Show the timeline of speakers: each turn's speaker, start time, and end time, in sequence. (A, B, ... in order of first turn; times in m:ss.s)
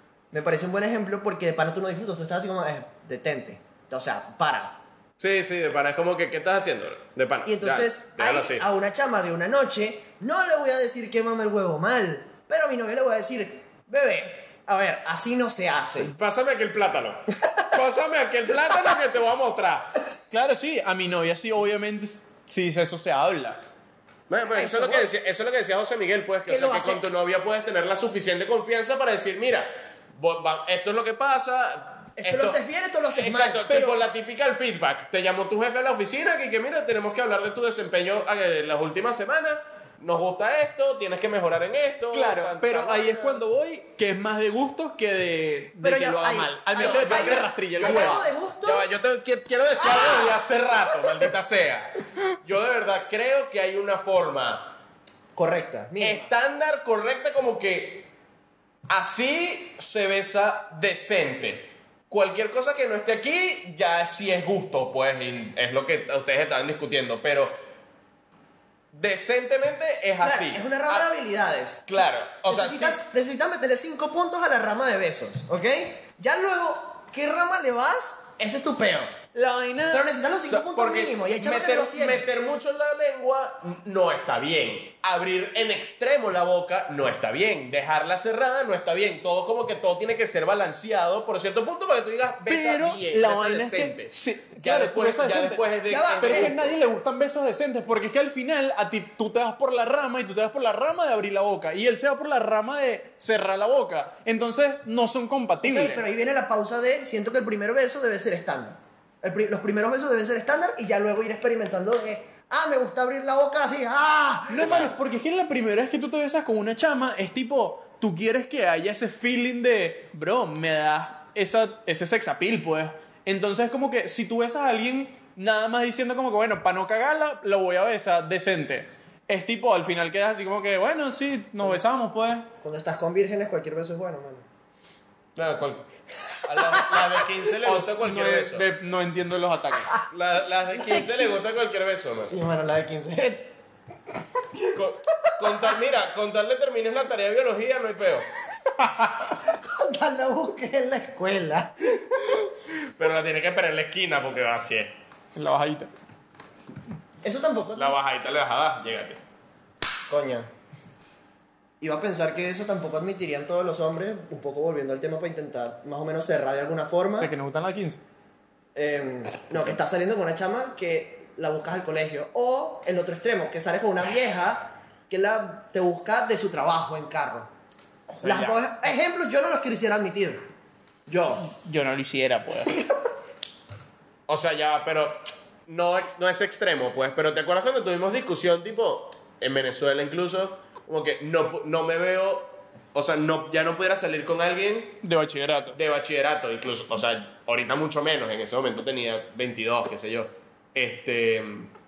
0:00.3-0:04.8 A
0:05.2-0:08.6 B
0:07.5-0:16.1 A
0:16.0-0:19.9 B
0:20.3-0:23.6 C
0:24.3-0:32.6 B
0:24.4-0:25.1 A
0:26.5-0:27.1 A
0:32.2-0:33.9 A
0:33.1-0:43.4 B
0:42.1-0:48.2 C
0:45.8-0:48.8 A
0:46.8-0:54.8 B
0:49.8-0:50.4 A
0:55.4-0:56.3 A
0:56.0-0:58.1 B
0:58.9-1:07.6 B
1:08.9-1:11.1 B
1:10.2-1:19.2 A
1:11.9-1:13.0 B
1:19.4-1:20.1 C
1:19.9-1:22.3 A
1:20.5-1:36.8 B
1:32.5-1:35.6 C
1:35.9-1:36.6 A
1:36.2-1:46.0 C
1:45.6-1:54.9 A
1:54.5-2:12.5 C
1:54.6-1:54.9 B
2:12.6-2:14.4 A
2:15.4-2:15.9 B
2:16.4-2:18.6 B
2:16.5-2:17.0 A
2:17.6-2:19.9 C
2:20.1-2:22.4 B
2:20.7-2:21.2 A
2:22.2-2:23.5 A
2:24.7-2:28.3 B
2:25.2-2:25.8 A
2:29.2-2:32.4 A
2:33.0-2:34.9 B
2:35.4-2:35.9 C
2:37.2-2:38.0 A
2:37.8-2:39.2 B
2:40.1-2:40.5 A
2:41.8-2:47.3 A
2:47.2-2:48.0 C
2:48.8-2:57.5 A
2:58.2-2:58.6 B
2:58.2-3:00.4 A
3:01.1-3:01.5 A
3:01.4-3:02.8 C
3:04.3-3:15.0 B
3:15.0-3:15.8 C
3:15.7-3:21.7 B